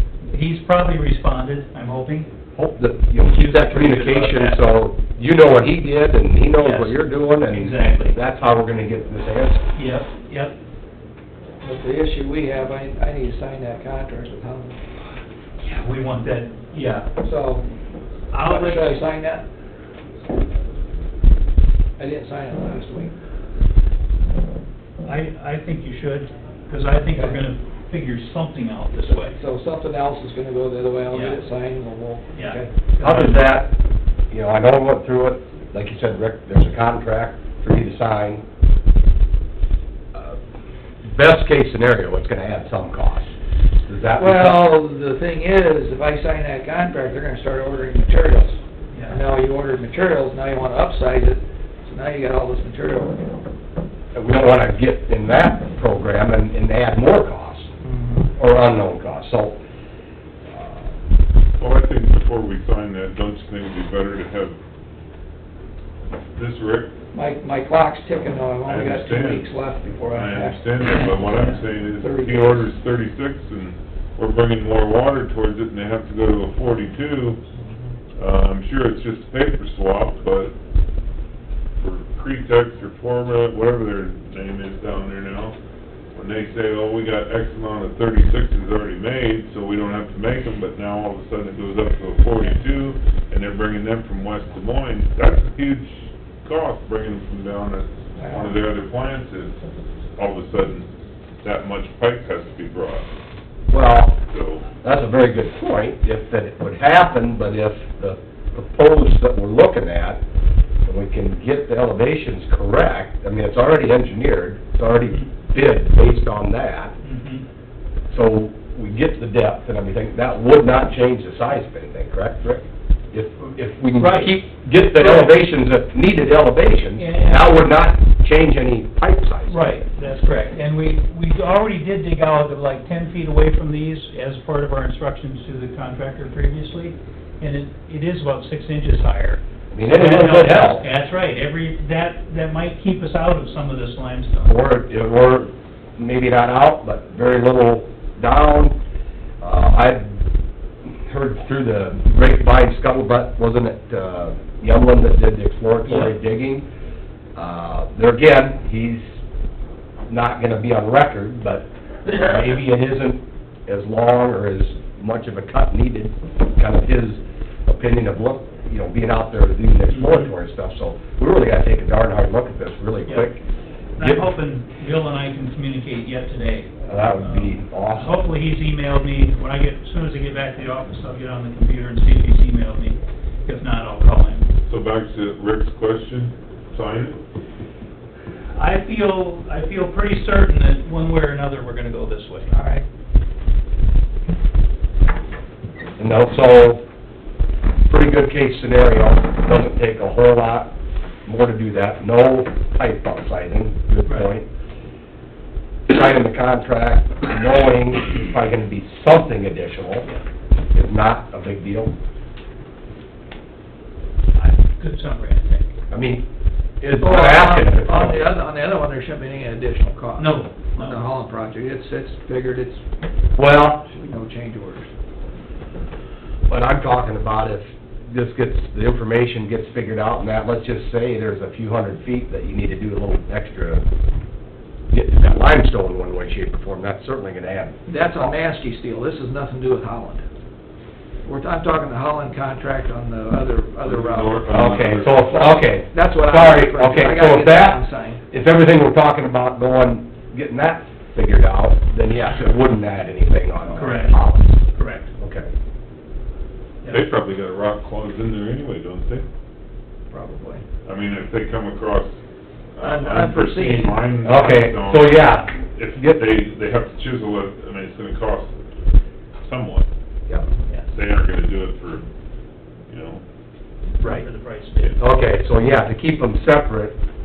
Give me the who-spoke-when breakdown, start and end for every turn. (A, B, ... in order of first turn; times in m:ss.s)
0:00.3-0:02.3 A
0:02.6-0:09.6 B
0:03.2-0:04.6 A
0:06.6-0:08.2 A
0:09.8-0:10.6 A
0:11.6-0:14.8 C
0:15.6-0:17.1 A
0:17.2-0:17.7 C
0:18.3-0:19.0 A
0:18.4-0:19.5 C
0:22.0-0:23.2 C
0:25.0-0:29.4 A
0:27.1-0:27.4 C
0:29.0-0:32.7 C
0:31.1-0:31.4 A
0:32.3-0:33.5 A
0:33.0-0:33.8 B
0:34.3-0:38.4 B
0:40.1-0:40.4 B
0:41.0-0:43.4 B
0:43.9-0:44.7 B
0:44.2-0:53.4 C
0:48.9-0:49.2 A
0:54.1-0:57.7 B
0:57.8-0:58.3 C
0:58.4-0:59.6 B
1:00.5-1:00.9 B
1:01.6-1:04.6 D
1:06.4-1:06.9 D
1:07.1-1:10.8 C
1:08.6-1:17.4 D
1:10.9-1:11.6 A
1:12.0-1:12.7 C
1:18.2-1:20.5 D
1:21.8-1:25.6 D
1:26.2-1:39.6 D
1:38.2-1:38.6 C
1:40.2-1:43.1 D
1:43.7-1:44.2 B
1:44.3-1:44.7 D
1:44.8-1:50.2 B
1:50.8-1:57.0 B
1:57.0-1:57.5 A
1:58.1-2:09.7 B
2:03.4-2:05.3 A
2:07.0-2:07.7 A
2:09.5-2:24.5 A
2:19.7-2:20.9 B
2:24.4-2:28.8 B
2:29.4-2:30.1 B
2:30.9-2:36.7 B
2:35.9-2:36.1 A
2:37.4-2:39.0 B
2:40.1-2:53.4 B
2:49.9-2:50.3 A
2:54.0-3:04.5 A
2:54.0-2:54.3 B
2:56.8-2:58.3 B
3:04.7-3:07.2 D
3:08.6-3:12.5 A
3:12.5-3:12.8 C
3:16.0-3:16.9 B
3:17.9-3:24.5 B
3:24.0-3:24.3 A
3:25.9-3:30.1 B
3:30.7-3:32.0 B
3:34.4-3:35.7 A
3:35.9-3:36.3 B
3:36.8-3:38.4 B
3:37.0-3:42.8 C
3:40.2-3:41.1 A
3:43.4-3:43.9 B
3:43.8-3:44.9 C
3:46.5-3:53.9 B
3:54.9-3:58.3 B
3:57.9-4:00.2 C
4:01.2-4:08.2 C
4:03.8-4:05.6 D
4:04.5-4:14.6 B
4:13.7-4:15.1 A
4:15.2-4:15.5 B
4:16.9-4:19.2 D
4:20.1-4:20.6 C
4:20.8-4:22.2 D
4:22.7-4:28.6 D
4:22.8-4:24.1 C
4:24.2-4:26.2 B
4:29.4-4:29.9 D
4:30.9-4:32.1 D
4:32.9-4:33.2 D
4:34.0-4:35.0 A
4:35.0-4:37.0 B